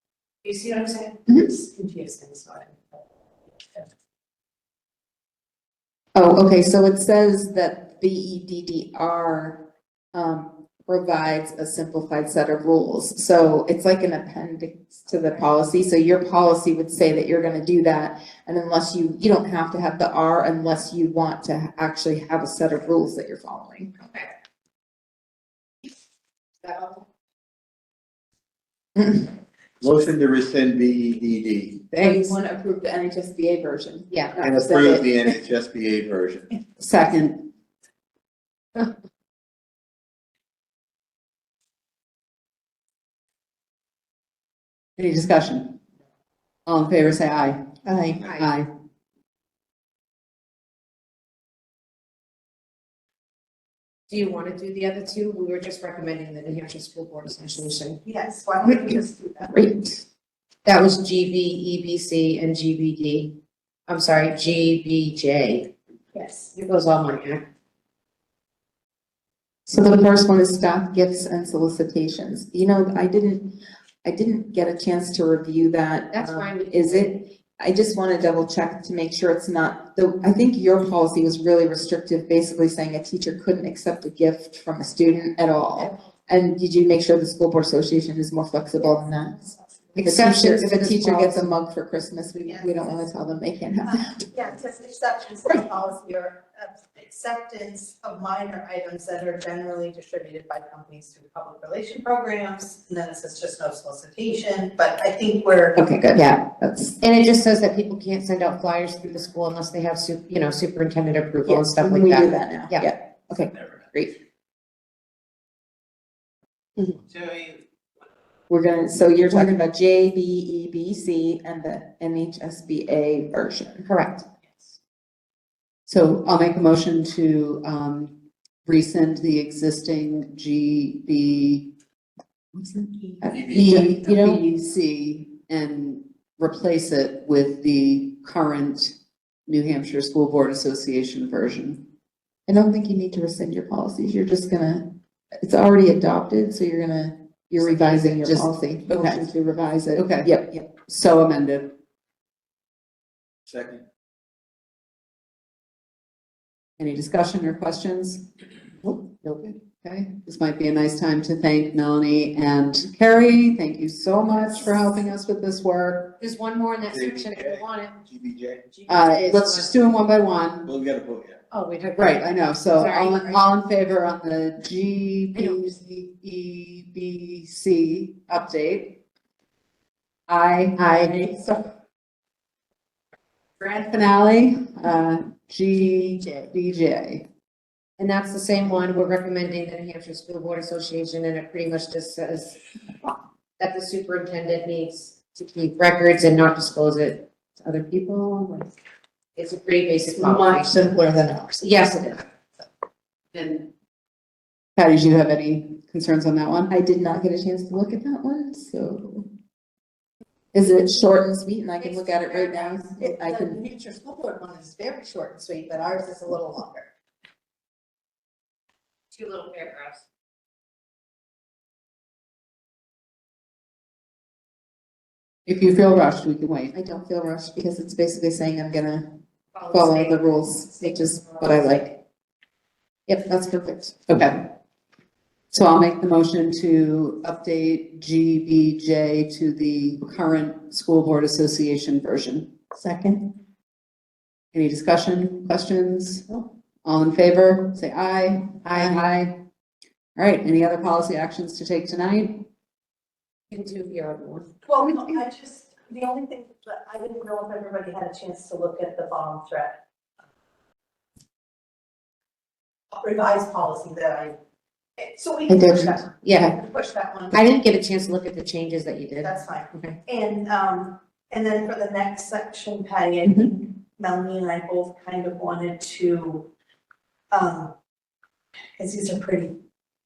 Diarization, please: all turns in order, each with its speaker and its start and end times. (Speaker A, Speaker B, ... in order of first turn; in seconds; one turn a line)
Speaker A: 0.4-2.7
Speaker B: 6.2-9.6
Speaker B: 10.1-23.9
Speaker A: 24.0-24.3
Speaker A: 26.6-27.0
Speaker B: 29.0-29.3
Speaker C: 29.8-31.8
Speaker A: 31.9-32.4
Speaker B: 32.0-35.1
Speaker A: 34.1-34.4
Speaker C: 34.4-36.5
Speaker D: 36.8-37.5
Speaker D: 45.0-45.8
Speaker D: 46.7-47.6
Speaker B: 47.9-48.2
Speaker D: 48.4-48.7
Speaker A: 54.1-58.0
Speaker E: 58.0-59.5
Speaker B: 58.6-59.0
Speaker B: 59.5-60.0
Speaker A: 60.6-65.7
Speaker E: 66.1-66.5
Speaker A: 66.5-67.5
Speaker B: 69.7-94.3
Speaker A: 76.1-77.2
Speaker A: 90.0-91.5
Speaker E: 93.8-105.8
Speaker B: 105.8-107.0
Speaker A: 106.2-106.4
Speaker A: 107.0-112.9
Speaker B: 111.5-114.1
Speaker B: 118.5-123.9
Speaker A: 123.8-124.3
Speaker D: 125.9-128.1
Speaker D: 128.7-131.7
Speaker B: 132.6-134.4
Speaker C: 133.4-133.7
Speaker D: 133.5-138.9
Speaker D: 139.5-141.8
Speaker B: 142.5-144.8
Speaker B: 145.4-150.7
Speaker D: 147.7-149.3
Speaker D: 149.9-150.3
Speaker D: 150.9-151.7
Speaker C: 153.5-153.8
Speaker D: 156.8-158.3
Speaker D: 158.9-166.1
Speaker A: 166.2-168.0
Speaker C: 166.9-168.7
Speaker A: 168.8-169.8
Speaker D: 168.9-170.7
Speaker C: 170.7-171.4
Speaker A: 171.5-173.4
Speaker D: 172.0-179.0
Speaker D: 180.3-180.8
Speaker A: 180.8-181.1
Speaker B: 180.9-181.7
Speaker D: 183.6-187.2
Speaker A: 188.0-192.6
Speaker A: 193.6-198.7
Speaker A: 199.4-200.8
Speaker E: 200.1-201.7
Speaker A: 201.6-202.3
Speaker D: 203.3-203.7
Speaker D: 204.8-206.7
Speaker B: 206.7-209.3
Speaker B: 210.5-213.6
Speaker A: 211.8-212.8
Speaker E: 213.0-216.9
Speaker A: 219.1-220.0
Speaker D: 225.5-226.7
Speaker B: 226.7-229.1
Speaker A: 229.5-230.2
Speaker B: 229.7-232.0
Speaker B: 233.1-233.9
Speaker D: 234.1-234.4
Speaker D: 235.5-242.5
Speaker B: 242.7-243.3
Speaker D: 244.5-246.3
Speaker D: 246.8-249.3
Speaker A: 248.6-249.1
Speaker D: 250.2-252.4
Speaker A: 253.5-254.5
Speaker E: 254.7-259.8
Speaker E: 262.9-264.4
Speaker E: 265.0-267.4
Speaker A: 266.2-266.6
Speaker A: 267.3-270.0
Speaker E: 269.2-276.5
Speaker E: 277.3-277.7
Speaker E: 278.8-279.6